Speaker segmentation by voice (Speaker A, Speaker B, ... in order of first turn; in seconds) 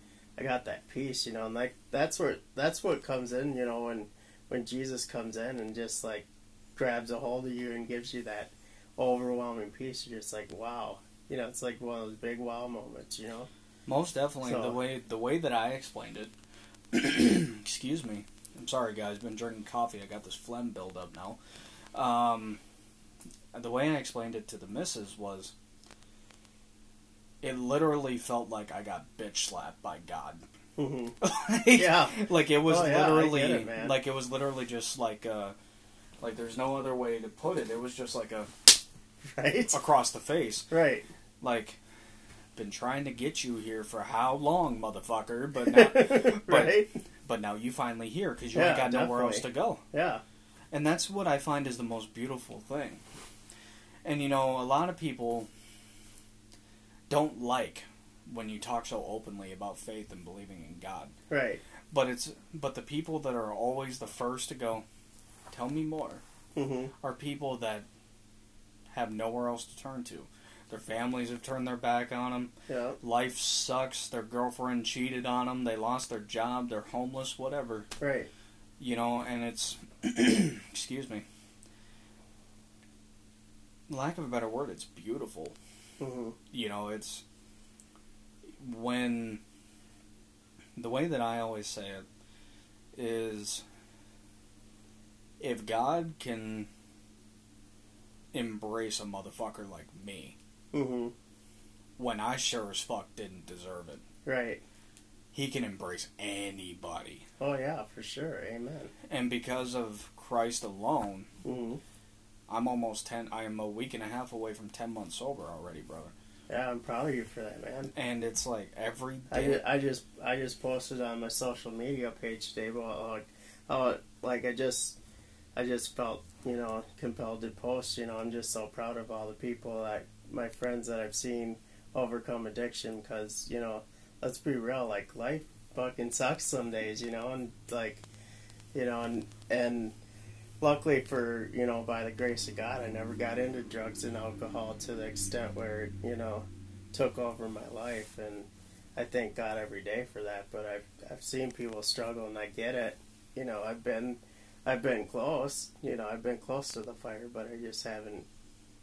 Speaker A: 0.4-13.5, 14.4-14.8, 30.8-31.1, 31.8-34.0, 39.2-39.8, 40.7-41.1, 45.6-46.9, 48.5-50.2, 61.3-61.6, 66.5-66.9, 72.7-73.0, 78.0-78.3, 86.0-86.4, 100.7-101.1, 104.2-104.6, 107.4-108.9, 111.4-111.8, 116.5-117.9, 119.3-125.0, 125.5-138.0, 138.7-139.9, 140.6-158.2
Speaker B: 13.9-16.3, 16.9-21.4, 21.9-22.6, 23.5-25.5, 27.4-30.4, 31.2-35.5, 36.2-38.7, 39.7-40.7, 41.4-41.8, 42.5-49.8, 50.7-53.0, 54.0-55.5, 57.1-61.1, 61.9-64.8, 65.5-66.2, 67.0-67.9, 68.9-77.9, 78.8-81.2, 83.9-85.5, 86.5-87.2, 88.6-89.4, 90.8-92.0, 92.9-93.6, 95.4-96.7, 98.3-100.4, 102.0-104.0, 105.3-107.3, 109.1-111.3, 112.5-116.1, 117.9-119.6